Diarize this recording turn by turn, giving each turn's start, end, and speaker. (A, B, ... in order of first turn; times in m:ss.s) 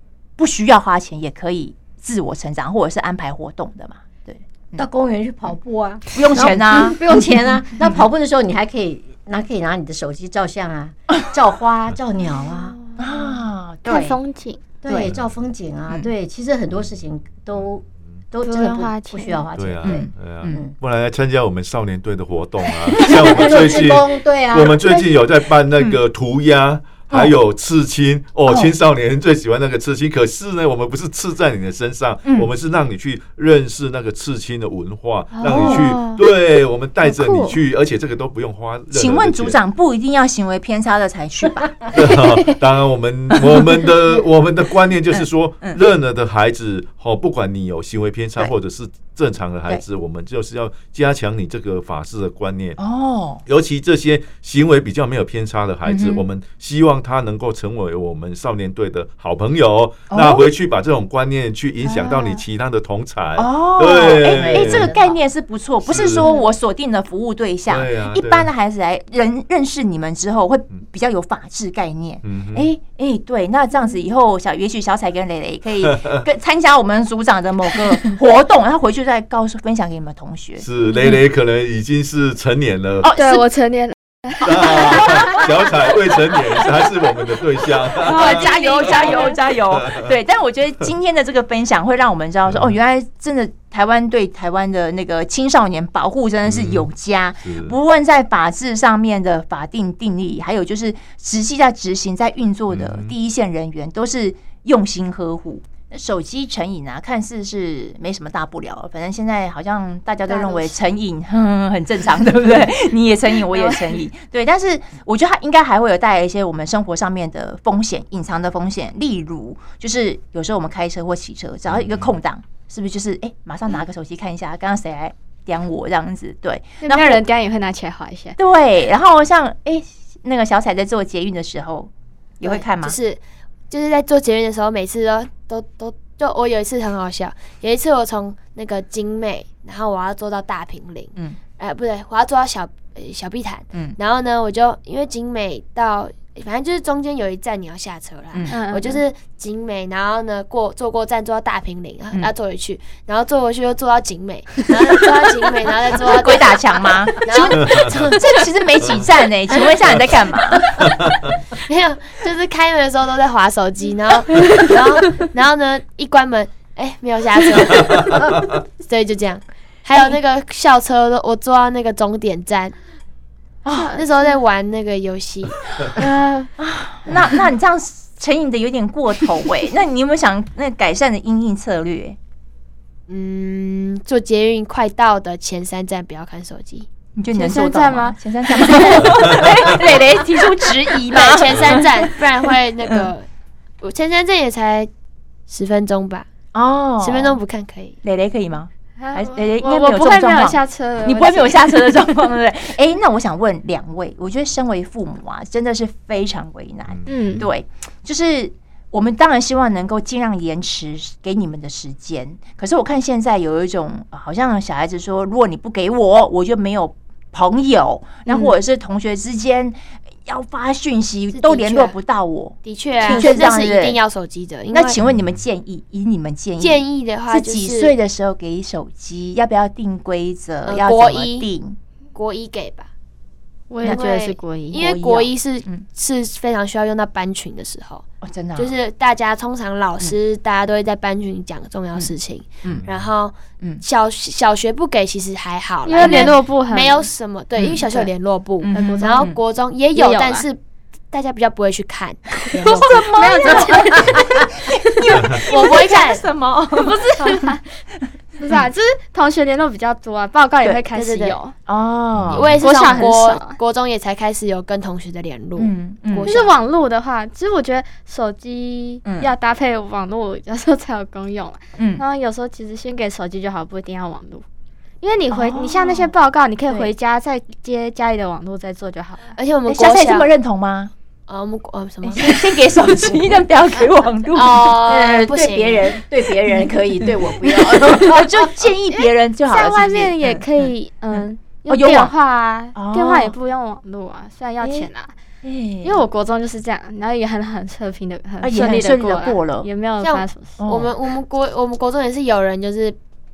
0:00.4-0:04.9 A
0:04.8-0:12.8 B
0:06.1-0:07.0 A
0:12.4-0:14.6 C
0:13.0-0:14.2 A
0:14.8-0:20.7 B
0:14.9-0:15.1 A
0:18.4-0:19.4 C
0:19.6-0:39.6 D
0:19.8-0:20.6 A
0:23.0-0:24.8 B
0:27.1-0:27.4 A
0:32.2-0:32.5 A
0:35.4-0:36.2 C
0:35.4-0:35.9 A
0:37.0-0:37.5 C
0:38.9-0:42.0 A
0:41.9-0:52.8 D
0:43.4-0:43.8 A
0:45.1-0:45.8 A
0:52.8-0:53.4 A
0:53.5-1:04.9 D
0:55.9-0:56.2 A
1:00.1-1:00.5 A
1:02.0-1:02.2 A
1:03.4-1:21.1 A
1:04.2-1:05.2 B
1:05.9-1:06.3 D
1:07.7-1:08.5 D
1:12.2-1:12.7 D
1:15.8-1:16.2 D
1:20.6-1:23.1 D
1:23.0-1:23.4 A
1:23.2-1:24.8 C
1:24.4-1:30.1 D
1:24.5-1:25.5 A
1:27.9-2:07.2 A
1:32.5-1:32.7 D
1:36.5-1:36.9 D
1:37.4-1:37.8 D
1:42.7-1:43.1 D
1:50.3-1:50.7 E
1:53.5-1:53.8 C
2:01.7-2:02.1 D
2:06.8-2:08.4 C
2:08.4-2:13.0 A
2:12.4-2:38.4 E
2:28.3-2:29.0 A
2:28.5-2:29.0 C
2:35.9-2:40.9 A
2:37.6-2:37.9 D
2:41.6-2:52.8 E
2:53.6-2:54.0 A
2:53.7-2:54.0 C
2:53.9-2:56.1 E
2:56.0-2:56.5 C
2:56.6-3:02.2 A
3:03.1-3:06.9 E
3:07.2-3:13.1 A
3:07.3-3:09.4 C
3:11.1-3:13.3 E
3:13.8-3:14.9 E
3:15.5-3:16.3 E
3:16.5-3:17.4 A
3:17.0-3:18.0 E
3:18.0-3:44.0 A
3:19.0-3:21.8 C
3:26.9-3:27.5 D
3:27.1-3:27.5 C
3:41.3-3:42.0 E
3:42.6-3:45.0 E
3:43.0-3:43.4 C
3:44.7-3:51.8 A
3:46.6-3:47.9 E
3:50.7-3:51.5 E
3:52.1-3:52.9 E
3:53.7-3:54.8 C
3:53.8-3:58.0 E
3:54.7-3:55.9 A
3:58.2-3:58.8 A
3:58.6-4:10.6 E
4:05.8-4:07.1 C
4:06.0-4:06.4 A
4:07.6-4:07.9 A
4:08.6-4:09.4 A
4:08.7-4:09.3 C
4:09.9-4:10.5 C
4:11.1-4:14.2 E
4:12.5-4:17.4 A
4:12.6-4:14.4 C
4:15.2-4:16.2 E
4:16.8-4:17.7 C
4:18.4-4:21.5 C
4:20.9-4:21.4 E
4:21.7-4:23.0 A
4:22.1-4:22.6 D
4:22.3-4:26.6 E
4:22.6-4:23.6 C
4:25.6-4:26.3 A
4:26.3-4:34.4 C
4:29.0-4:29.3 A
4:31.8-4:32.0 A
4:35.0-4:39.3 C
4:35.3-4:36.1 A
4:39.4-4:40.3 E
4:39.7-4:40.9 A
4:41.3-4:42.7 E
4:42.0-4:44.7 A
4:44.3-4:46.0 E
4:44.8-4:48.6 B
4:47.4-4:52.1 A
4:49.5-4:55.1 C
4:52.8-4:53.4 A
4:54.6-4:54.9 A
4:55.4-4:56.0 A
4:55.8-5:00.6 C
4:58.4-4:59.7 A
5:00.0-5:03.0 E
5:00.6-5:00.9 A